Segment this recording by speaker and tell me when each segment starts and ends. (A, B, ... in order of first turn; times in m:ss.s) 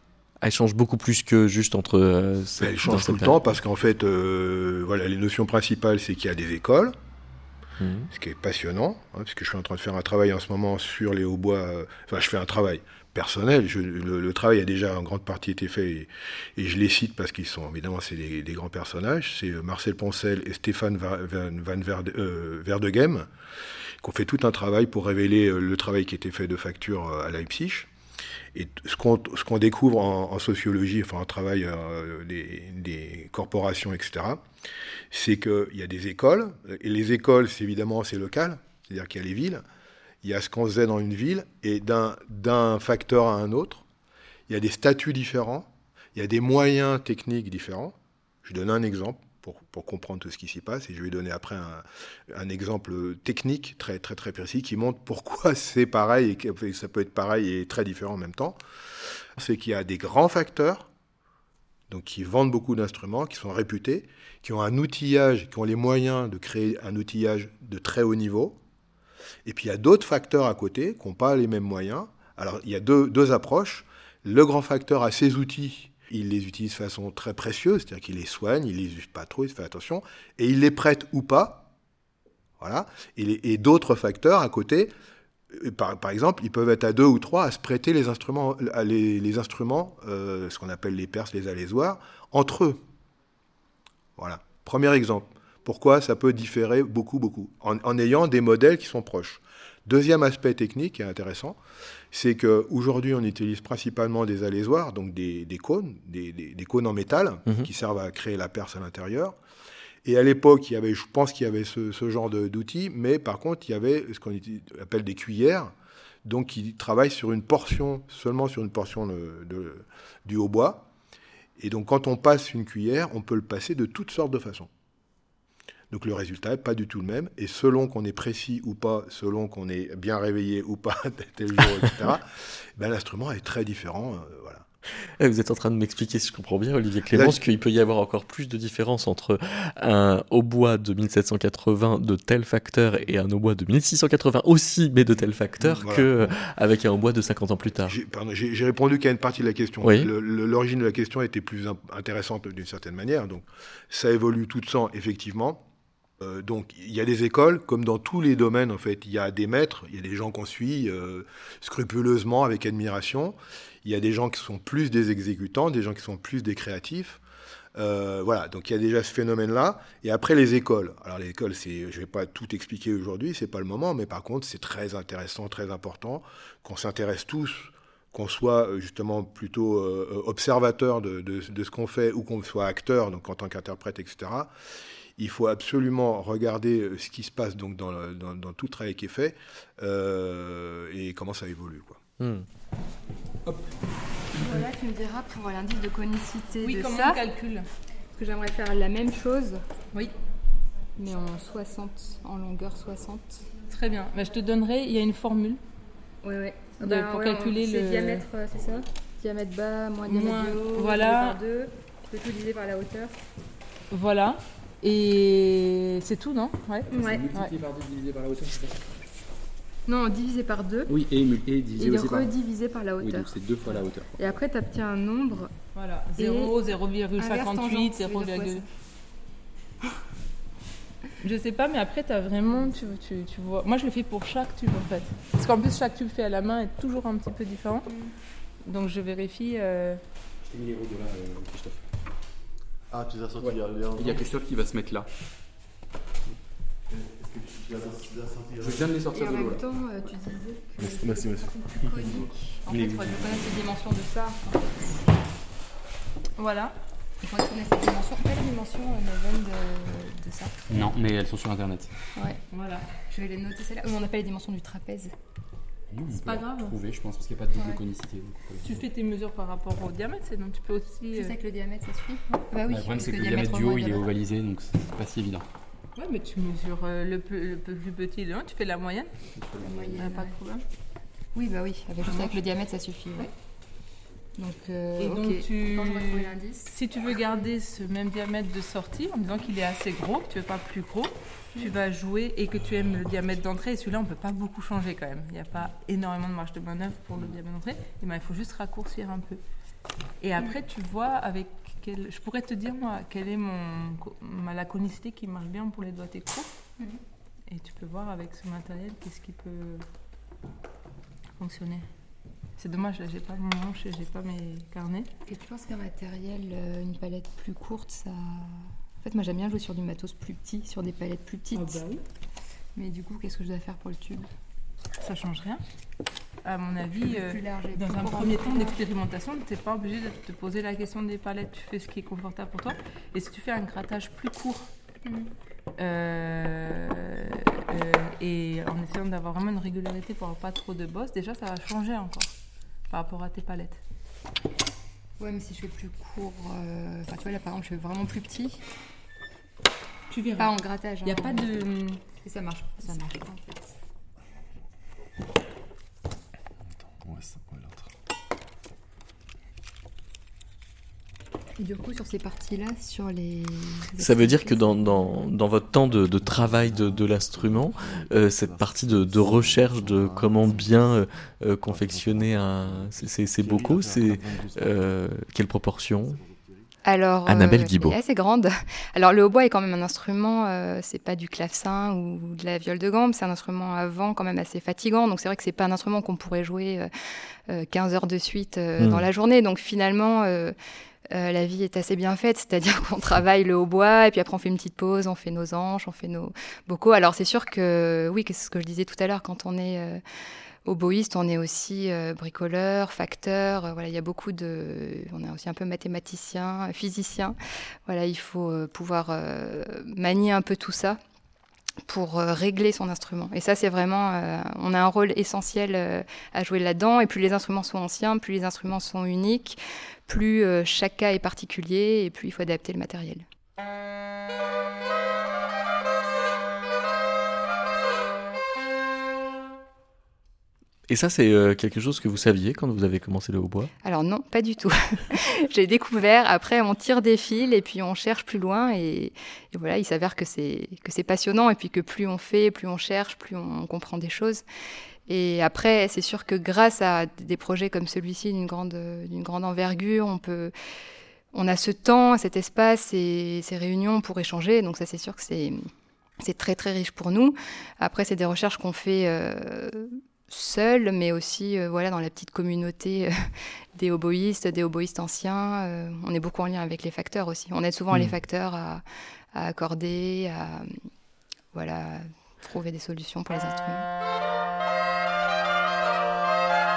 0:00.4-0:03.4 A
0:02.6-0:07.0 B
0:07.8-0:08.1 A
0:08.1-0:23.3 B
0:24.0-0:27.9 B
0:28.5-0:34.4 B
0:35.1-0:39.6 B
0:40.2-0:43.8 B
0:44.5-0:58.6 B
0:59.4-1:00.9 B
1:01.9-1:08.6 B
1:09.4-1:21.7 B
1:22.6-1:24.9 B
1:25.5-1:32.8 B
1:34.2-1:41.6 B
1:42.1-1:49.4 B
1:50.0-1:55.7 B
1:56.2-2:00.9 B
2:01.6-2:04.7 B
2:05.9-2:12.2 B
2:12.8-2:14.7 B
2:15.2-2:28.0 A
2:17.1-2:17.4 B
2:25.6-2:26.4 B
2:27.8-2:35.6 B
2:29.8-2:30.1 A
2:36.2-2:47.2 B
2:47.8-3:04.5 B
3:05.2-3:12.0 B
3:12.2-3:12.5 A
3:14.4-3:17.2 C
3:16.6-3:17.7 D
3:18.1-3:19.6 C
3:21.0-3:23.6 C
3:23.7-3:25.6 D
3:26.2-3:33.2 C
3:26.8-3:28.2 D
3:30.1-3:31.4 D
3:33.9-3:37.5 D
3:36.9-3:37.3 C
3:36.9-3:38.9 E
3:39.9-3:40.9 C
3:40.9-3:42.3 E
3:41.8-3:43.4 C
3:43.0-3:44.2 E
3:44.2-3:45.5 C
3:45.7-3:48.6 D
3:46.2-3:46.6 C
3:47.2-3:48.7 C
3:51.2-3:57.9 D
3:58.7-4:00.0 D
4:00.4-4:01.8 E
4:02.9-4:04.4 F
4:03.4-4:05.1 E
4:06.9-4:09.6 F
4:08.6-4:09.6 E
4:09.1-4:14.7 C
4:10.8-4:12.3 F
4:12.0-4:13.4 E
4:16.4-4:16.7 D
4:17.2-4:20.6 C
4:20.7-4:21.9 E
4:22.2-4:22.4 C
4:22.5-4:22.9 D
4:23.0-4:25.1 C
4:25.9-4:28.8 E
4:26.1-4:26.8 D
4:27.5-4:27.8 C
4:28.6-4:31.4 D
4:31.1-4:34.1 C
4:32.7-4:35.5 E
4:36.0-4:39.1 D
4:39.4-4:40.0 E
4:39.6-4:40.4 C
4:40.0-4:40.6 D
4:41.3-4:43.3 C
4:42.1-4:42.4 D
4:44.4-4:46.7 C
4:45.0-4:59.4 D
5:00.2-5:06.5 D
5:07.5-5:09.8 D
5:11.4-5:11.9 D
5:12.6-5:15.1 D
5:15.2-5:21.8 C
5:21.5-5:22.0 D
5:22.8-5:24.3 C
5:25.0-5:25.6 D
5:26.4-5:34.7 D
5:26.9-5:28.8 C
5:35.0-5:35.3 C
5:35.8-5:42.3 D
5:42.9-5:43.8 D
5:45.2-5:48.6 C
5:50.1-5:52.0 D
5:50.4-5:51.5 C
5:52.1-5:53.8 C
5:56.8-5:57.9 F
6:01.6-6:05.3 C
6:04.0-6:16.2 A
6:06.2-6:11.0 F
6:11.7-6:15.0 F
6:16.0-6:16.7 F
6:16.8-6:26.9 C
6:17.3-6:18.0 A
6:27.5-6:30.5 C
6:28.8-6:29.0 A
6:31.1-6:40.0 C
6:40.6-6:51.0 C
6:51.9-7:03.2 C
7:10.9-7:13.7 A
7:13.8-7:24.4 C
7:25.1-7:30.5 C
7:31.3-7:35.7 C
7:36.2-7:48.8 C
7:49.3-7:50.7 C
7:51.5-7:53.9 C